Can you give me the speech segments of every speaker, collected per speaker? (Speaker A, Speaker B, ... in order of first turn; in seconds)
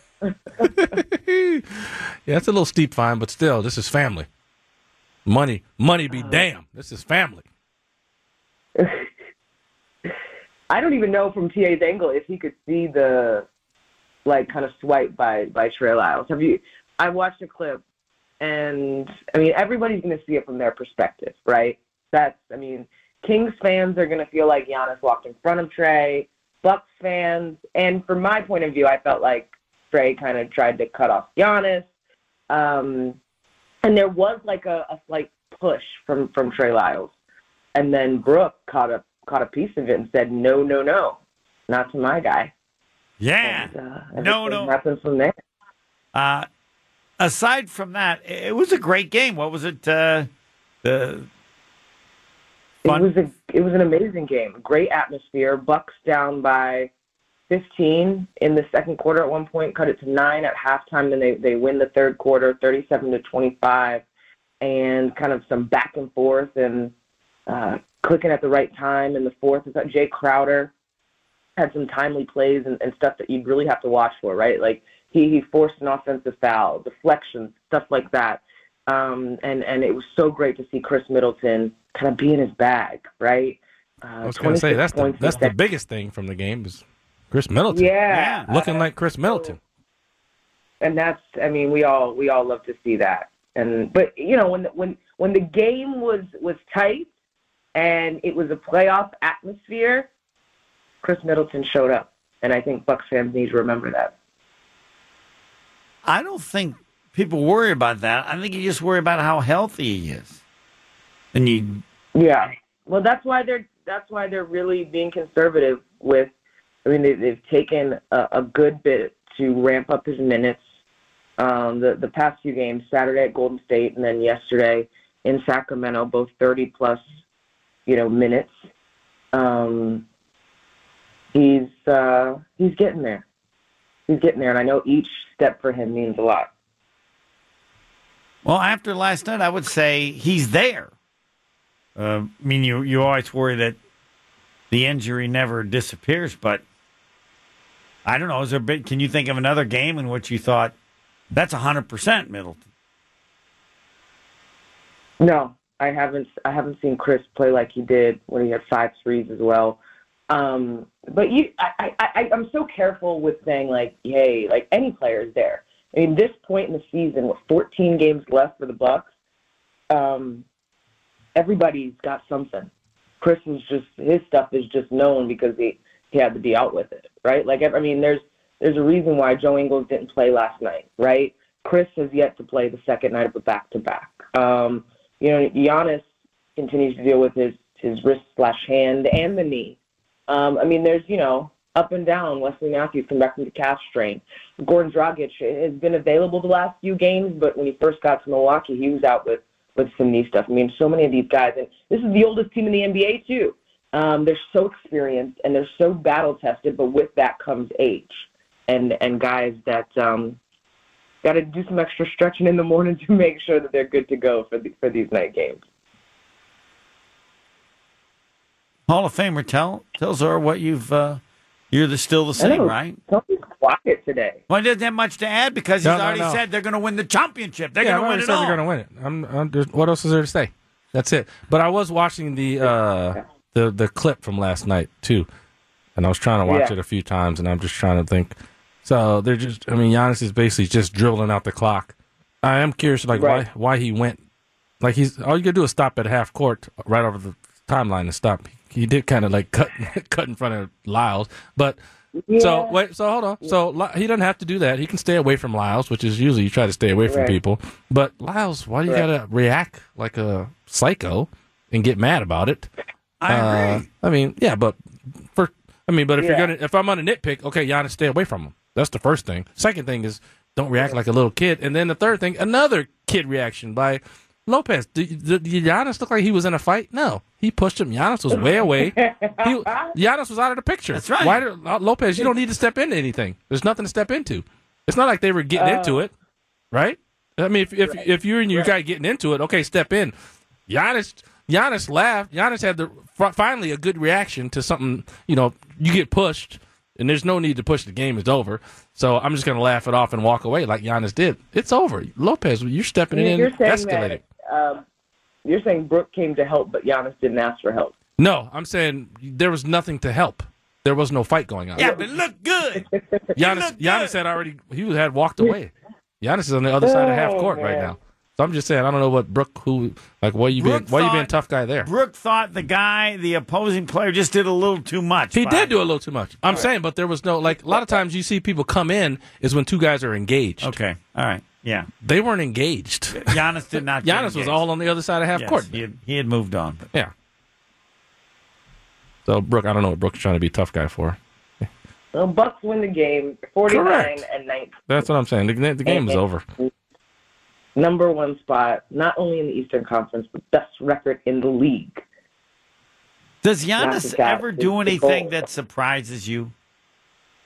Speaker A: 0.6-4.3, 5.2-7.4, 84.2-88.0, 88.5-89.6, 225.8-226.4, 227.8-235.3, 235.9-244.2, 244.8-251.8, 252.3-262.7, 263.3-286.1, 286.7-290.1, 290.7-304.2, 308.2-312.0, 313.4-321.9, 325.3-330.8, 332.0-333.4, 334.0-335.8, 339.2-341.2, 343.7-344.2, 344.9-346.4
Speaker B: 6.1-6.4, 8.8-9.1, 10.7-13.4, 14.2-17.8, 18.4-31.9, 32.5-33.2, 33.8-37.1, 37.7-42.5, 43.4-45.3, 52.8-56.9, 57.5-64.0, 64.6-66.9, 67.5-70.7, 71.6-85.5, 87.7-89.5, 90.8-97.1, 97.7-100.1, 101.0-104.1, 112.1-116.3, 116.8-120.6, 121.4-127.0, 127.8-128.5, 129.3-130.1, 131.3-133.2, 134.1-136.5, 155.2-169.1, 169.9-170.4, 171.3-210.4, 211.2-215.6, 222.4-224.4, 236.4-236.8, 243.1-243.4, 252.1-252.8, 257.1-257.4, 266.2-266.5, 278.4-279.9, 285.5-286.1, 287.9-288.7, 303.1-304.8, 305.4-307.9, 311.8-312.1, 312.7-313.4, 316.8-317.9, 327.6-328.0, 342.1-345.0, 345.9-346.7, 347.8-352.0, 353.8-355.4
Speaker C: 43.2-44.7, 46.1-46.5, 47.2-50.3, 50.8-51.3, 88.1-88.5, 106.0-110.3, 111.3-111.8, 138.4-140.9, 141.9-143.8, 144.7-146.6, 148.0-150.7, 151.3-152.6, 218.9-221.2, 221.7-223.0, 224.5-228.6, 263.2-263.8, 280.9-281.4, 311.8-312.8, 313.4-314.1, 320.6-325.8, 330.6-331.9, 333.1-334.6, 335.3-336.8, 353.4-356.5